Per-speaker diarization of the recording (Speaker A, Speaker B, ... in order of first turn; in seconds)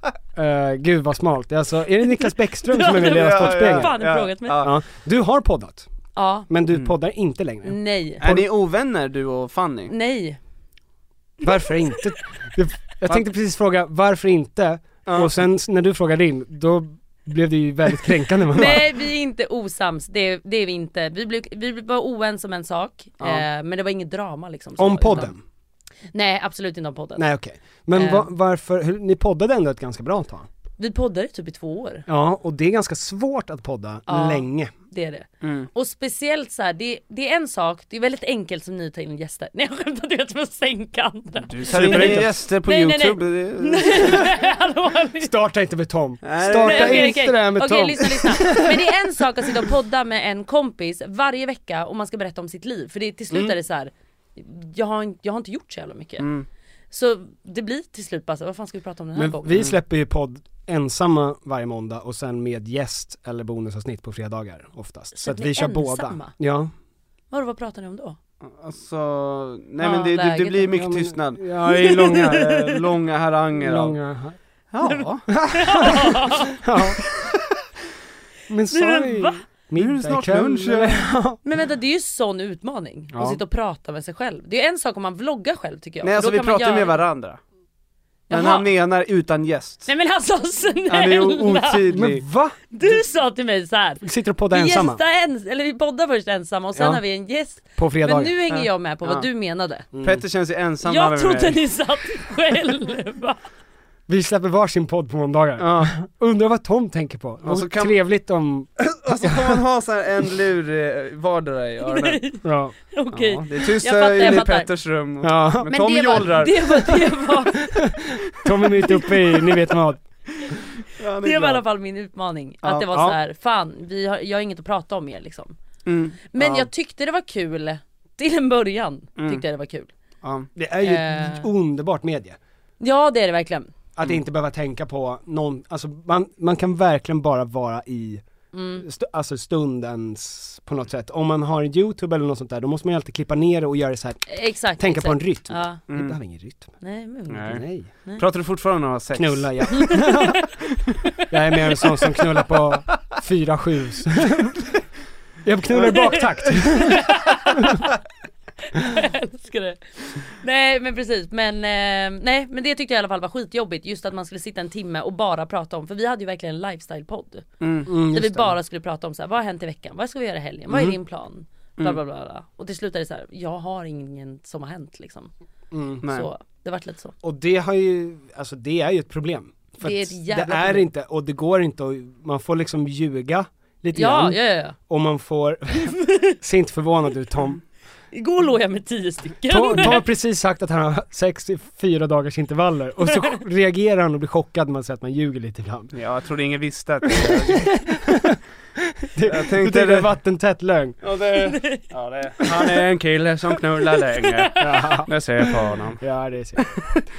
Speaker A: 0.3-4.0, 4.6-5.9, 6.5-8.5, 11.4-18.9, 24.8-25.4, 27.1-30.5, 32.1-34.7, 41.7-42.4, 45.2-49.0, 59.1-66.7, 70.7-72.6, 73.6-74.4, 75.3-77.0, 78.5-81.4, 83.1-83.4, 91.9-92.7, 94.0-95.0, 96.8-97.0, 97.8-98.3, 99.9-100.2, 104.1-109.5, 112.4-113.4, 115.2-120.0, 122.6-123.2, 130.5-132.4, 133.9-138.2, 138.8-146.7, 147.4-147.9, 149.1-150.3, 151.3-154.6, 155.4-157.8, 167.9-168.5, 170.7-170.9, 175.7-176.0, 177.2-187.6, 189.5-195.9, 197.1-198.4, 199.0-201.0, 204.6-206.8
Speaker B: 2.7-4.6, 6.2-6.5, 7.6-8.2, 9.9-10.4, 18.5-25.3, 26.1-27.2, 27.9-28.3, 30.8-32.0, 34.1-45.3, 46.6-56.3, 56.9-59.6, 65.1-66.3, 67.3-68.2, 69.8-70.7, 71.6-72.4, 74.8-76.6, 78.7-79.4, 81.4-87.0, 88.3-88.7, 89.9-91.9, 92.7-99.9, 100.8-103.4, 111.9-114.7, 115.7-117.8, 121.2-125.5, 126.3-129.9, 130.8-131.5, 132.8-133.7, 138.5-138.8, 144.3-145.8, 146.8-148.2, 149.8-150.2, 155.8-157.8, 158.7-175.3, 176.1-177.2, 179.8-180.9, 183.9-184.8, 185.9-186.4, 188.1-190.1, 201.6-201.8, 204.2-204.9
Speaker C: 2.9-4.7, 8.2-9.9, 35.4-35.7, 41.4-44.2, 46.2-47.2, 56.2-56.5, 68.4-74.0, 74.7-75.2, 79.8-81.0, 86.0-87.4, 88.3-89.9, 90.9-92.2, 98.5-99.2, 100.0-101.6, 105.6-105.9, 107.4-107.9, 108.8-112.2, 113.5-116.9, 121.0-121.6, 125.8-126.7, 129.2-129.4, 130.2-130.5, 145.9-146.2, 147.3-147.6, 148.1-149.9, 167.6-167.9, 176.0-176.3, 195.9-197.7, 199.2-200.1, 201.0-206.0, 206.6-207.0